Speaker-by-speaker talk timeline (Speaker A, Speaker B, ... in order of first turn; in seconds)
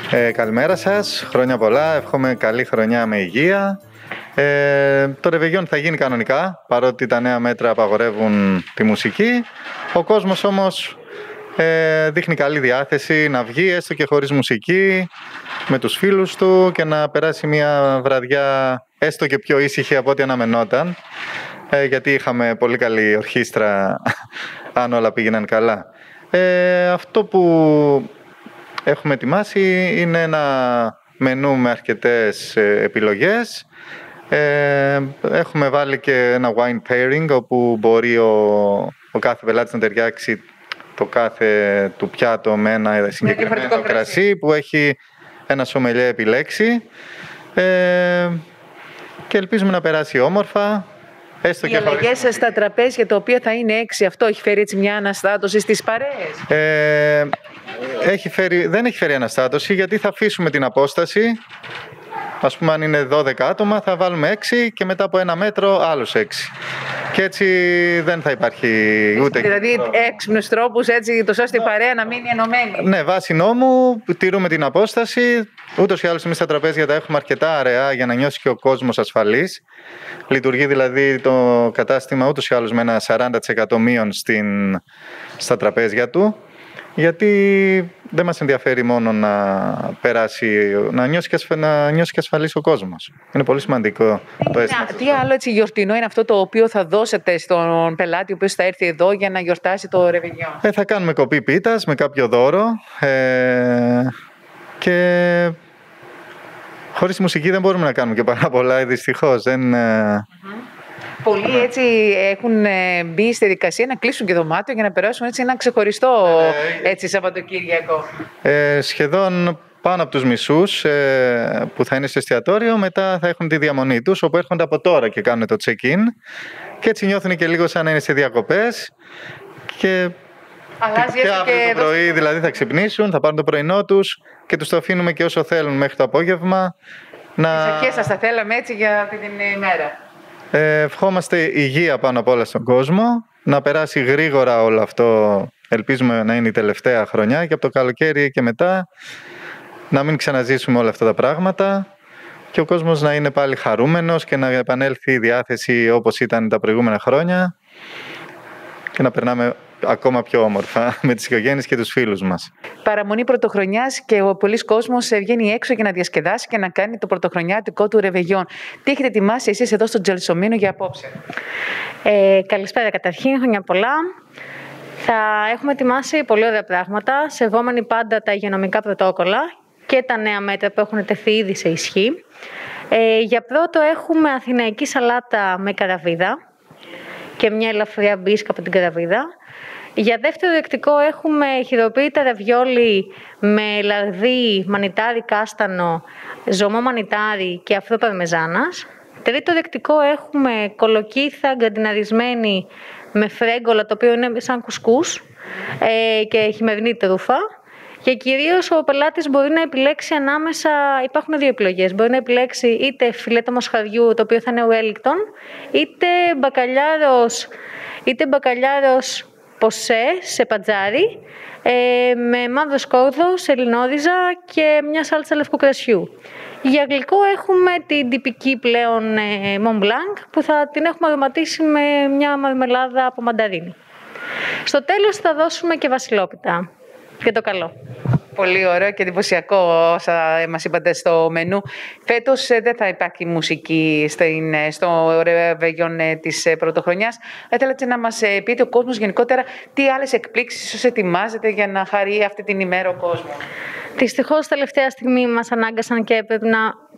Speaker A: 0.1-3.8, 4.4-10.9, 11.6-15.1, 15.7-21.0, 21.7-24.0, 24.8-28.1, 28.9-33.6, 34.3-40.4, 41.0-45.0, 45.5-46.8, 47.5-48.4, 49.3-50.9, 51.4-52.3, 56.5-57.3, 58.0-61.4, 62.4-66.5, 67.1-69.9, 72.8-79.6, 80.3-84.8, 85.4-86.4, 87.0-95.2, 100.6-104.1, 104.8-105.5, 106.9-110.2, 116.2-116.9, 118.4-126.1, 126.8-128.9, 129.7-130.2, 131.0-136.7, 137.4-138.1, 140.5-148.9, 149.9-151.9, 152.5-157.5, 158.9-162.5
Speaker B: 43.2-44.2, 51.6-56.4, 69.1-72.9, 94.4-100.6, 111.2-118.1, 130.8-132.3, 137.5-140.0, 162.8-171.2, 238.3-253.4
Speaker C: 172.0-174.0, 175.0-182.2, 182.9-186.3, 187.4-189.3, 190.0-205.2, 205.8-207.4, 208.0-217.5, 218.0-226.1, 226.6-233.8, 234.7-236.7, 237.2-237.7, 254.0-256.8